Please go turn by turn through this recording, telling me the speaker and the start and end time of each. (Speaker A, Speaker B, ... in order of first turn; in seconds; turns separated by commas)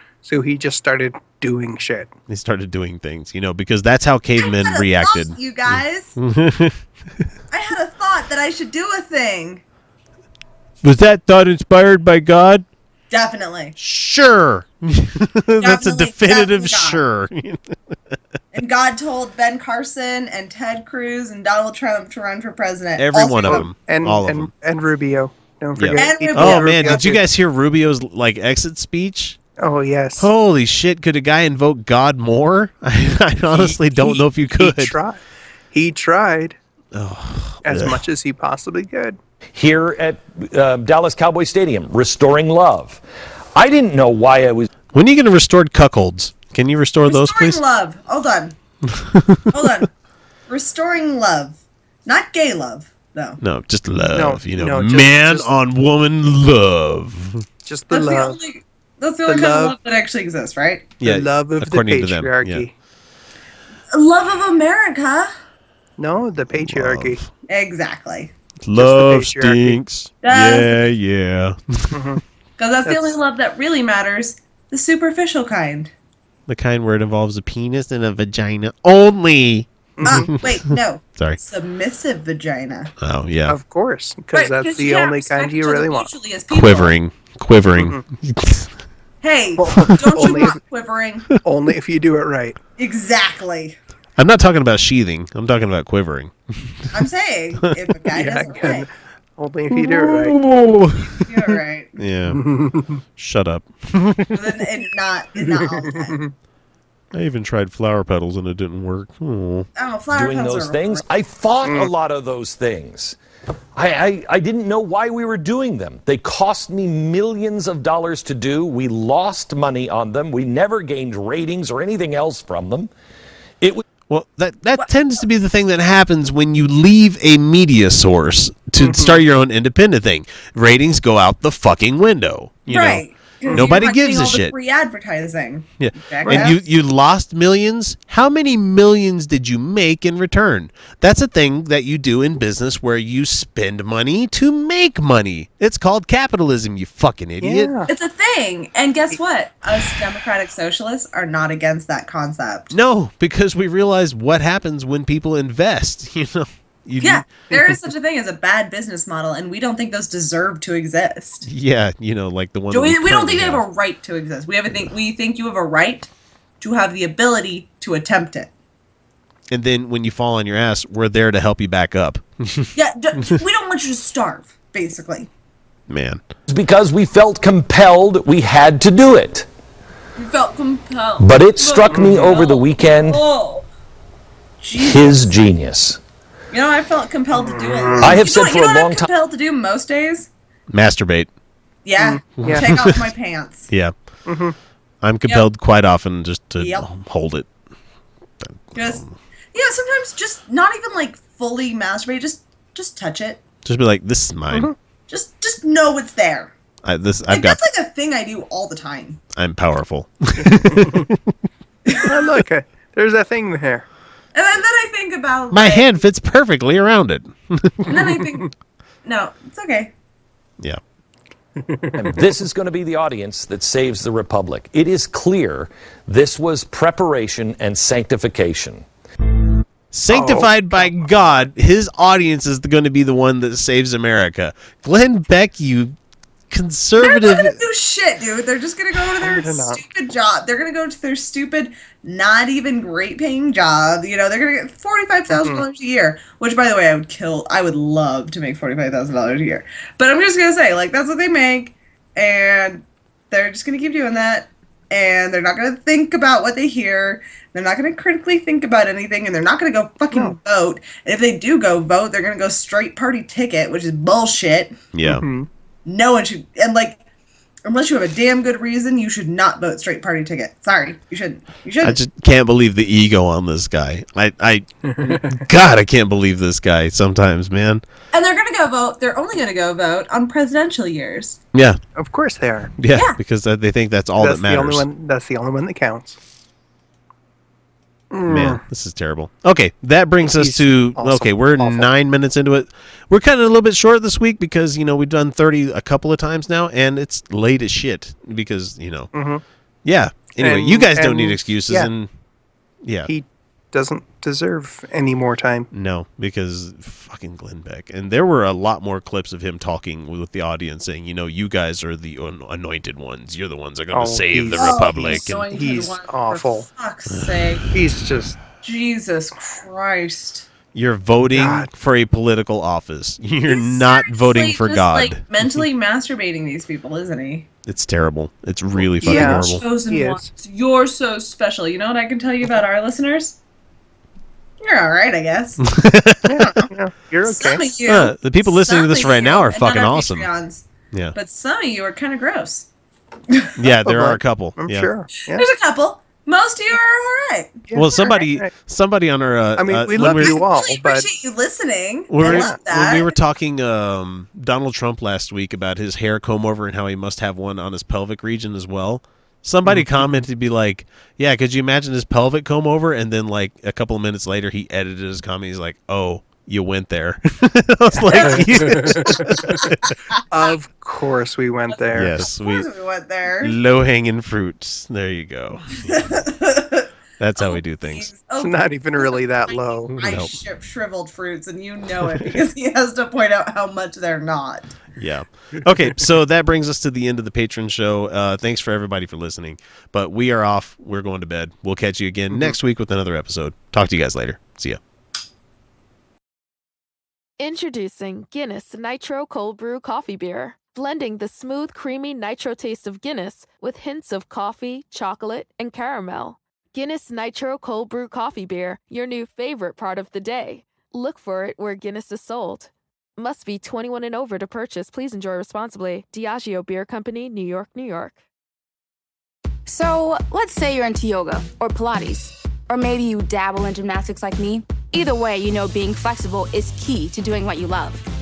Speaker A: 0.2-2.1, Speaker B: 2.3-6.8, Speaker C: 4.4-6.1, Speaker C: 7.5-9.6, Speaker B: 10.8-12.7, Speaker C: 13.1-13.7, Speaker B: 13.8-17.6, Speaker C: 15.6-17.0, Speaker C: 18.5-23.7, Speaker B: 23.0-24.5, Speaker A: 23.4-27.2, Speaker B: 25.8-29.4, Speaker C: 25.9-27.1, Speaker A: 29.6-30.3, Speaker B: 30.2-35.0, Speaker A: 33.5-35.2, Speaker A: 35.7-36.6, Speaker B: 36.9-38.0, Speaker A: 37.6-39.2, Speaker D: 39.5-43.0, Speaker D: 43.5-44.7, Speaker B: 44.9-47.6, Speaker C: 47.0-48.5, Speaker B: 48.9-49.6, Speaker C: 49.5-49.9, Speaker C: 50.5-53.4, Speaker B: 53.4-57.4, Speaker A: 54.1-55.6, Speaker A: 57.6-58.4, Speaker C: 57.9-60.9, Speaker A: 59.2-59.8, Speaker B: 61.0-62.7, Speaker A: 61.0-62.7, Speaker C: 63.9-65.3, Speaker A: 66.0-67.3, Speaker B: 66.5-67.2, Speaker C: 67.5-68.3, Speaker B: 68.6-72.1, Speaker A: 68.7-69.8, Speaker C: 70.2-70.8, Speaker A: 71.9-72.2, Speaker C: 72.6-75.9, Speaker A: 72.8-73.2, Speaker B: 76.5-80.6, Speaker A: 80.0-80.3, Speaker C: 80.0-82.9, Speaker B: 83.0-83.6, Speaker A: 83.5-86.1, Speaker C: 84.3-87.0, Speaker B: 86.5-88.7, Speaker A: 87.8-88.0, Speaker C: 89.2-91.3, Speaker A: 89.6-90.6, Speaker B: 89.8-90.2, Speaker A: 91.4-92.6, Speaker C: 92.8-93.8, Speaker B: 94.2-97.0, Speaker C: 96.9-98.9, Speaker A: 98.1-100.4, Speaker B: 99.7-102.4, Speaker C: 101.3-102.0, Speaker A: 102.3-103.0, Speaker B: 103.2-104.4, Speaker C: 104.3-106.2, Speaker A: 105.3-106.3, Speaker B: 107.1-109.7, Speaker C: 109.7-111.0, Speaker D: 110.1-113.2, Speaker A: 111.6-111.9, Speaker D: 113.7-122.9, Speaker B: 124.1-134.5, Speaker A: 128.8-129.2, Speaker C: 132.7-136.6, Speaker A: 133.4-133.8, Speaker B: 135.8-147.7, Speaker A: 136.2-136.5, Speaker A: 147.4-147.9, Speaker C: 147.9-152.8, Speaker B: 152.7-157.7, Speaker C: 157.0-161.5, Speaker B: 161.4-163.6, Speaker C: 162.7-168.5, Speaker B: 169.5-172.7, Speaker C: 172.7-175.3, Speaker B: 175.9-176.2, Speaker D: 176.5-179.5, Speaker C: 180.2-183.7, Speaker D: 181.2-183.2, Speaker A: 181.9-182.4, Speaker C: 184.6-185.4, Speaker D: 184.7-186.0, Speaker C: 186.5-190.3, Speaker A: 187.3-188.2, Speaker D: 188.0-189.1, Speaker B: 190.7-191.3, Speaker C: 191.8-193.7, Speaker A: 192.0-192.7, Speaker B: 192.4-193.0, Speaker A: 194.2-194.6, Speaker B: 195.0-197.5, Speaker C: 196.6-196.9, Speaker B: 198.4-199.1, Speaker C: 198.7-199.0, Speaker C: 199.5-203.4, Speaker B: 203.6-204.7, Speaker C: 205.1-206.5, Speaker B: 206.8-207.6, Speaker C: 207.3-209.2, Speaker B: 209.3-211.1, Speaker A: 210.4-211.1, Speaker C: 211.8-212.2, Speaker A: 212.0-213.8, Speaker C: 214.3-216.0, Speaker B: 215.5-217.9, Speaker C: 217.9-218.5, Speaker A: 217.9-218.3, Speaker C: 219.0-219.9, Speaker A: 221.6-222.1, Speaker D: 222.0-228.8, Speaker B: 229.9-235.9, Speaker A: 230.1-230.9, Speaker B: 236.5-237.6, Speaker C: 237.0-264.7, Speaker A: 239.2-239.8, Speaker A: 245.3-245.6, Speaker A: 260.1-260.4, Speaker B: 264.9-265.2, Speaker A: 265.0-265.5, Speaker C: 265.8-267.0, Speaker C: 267.6-272.0, Speaker B: 271.8-277.8, Speaker A: 274.9-275.4, Speaker C: 278.1-281.4, Speaker A: 281.9-282.7, Speaker B: 282.8-284.9, Speaker C: 282.9-283.2, Speaker A: 284.1-286.2, Speaker A: 288.1-288.6, Speaker B: 288.3-299.1, Speaker A: 290.2-291.9, Speaker A: 299.1-299.4, Speaker B: 299.8-302.1, Speaker A: 300.3-301.9, Speaker B: 302.8-303.1, Speaker A: 303.1-305.7, Speaker B: 305.7-315.5, Speaker A: 313.9-316.7, Speaker C: 314.5-317.6, Speaker B: 317.1-317.6, Speaker A: 317.7-318.4, Speaker C: 318.6-320.5, Speaker B: 320.7-325.6, Speaker A: 321.2-321.7, Speaker C: 323.5-327.5, Speaker B: 327.6-329.6, Speaker A: 328.8-330.3, Speaker C: 329.0-333.4, Speaker C: 334.6-335.6, Speaker B: 335.6-336.4, Speaker A: 336.2-337.7, Speaker C: 337.2-342.7, Speaker B: 337.9-340.3, Speaker B: 343.6-344.9, Speaker A: 343.7-345.4, Speaker C: 345.3-348.2, Speaker A: 347.7-348.5, Speaker B: 347.7-350.4, Speaker A: 349.6-351.1, Speaker C: 350.0-353.1, Speaker B: 352.1-369.9, Speaker A: 352.2-352.6, Speaker A: 359.6-360.0, Speaker C: 368.0-368.7, Speaker A: 368.3-369.5, Speaker A: 370.3-372.2, Speaker C: 371.7-373.5, Speaker B: 371.9-372.7, Speaker B: 373.4-376.1, Speaker C: 375.9-384.7, Speaker B: 377.2-378.1, Speaker A: 378.4-380.0, Speaker B: 380.0-380.3, Speaker B: 384.9-394.8, Speaker A: 392.3-392.6, Speaker E: 397.4-418.2, Speaker F: 419.7-428.0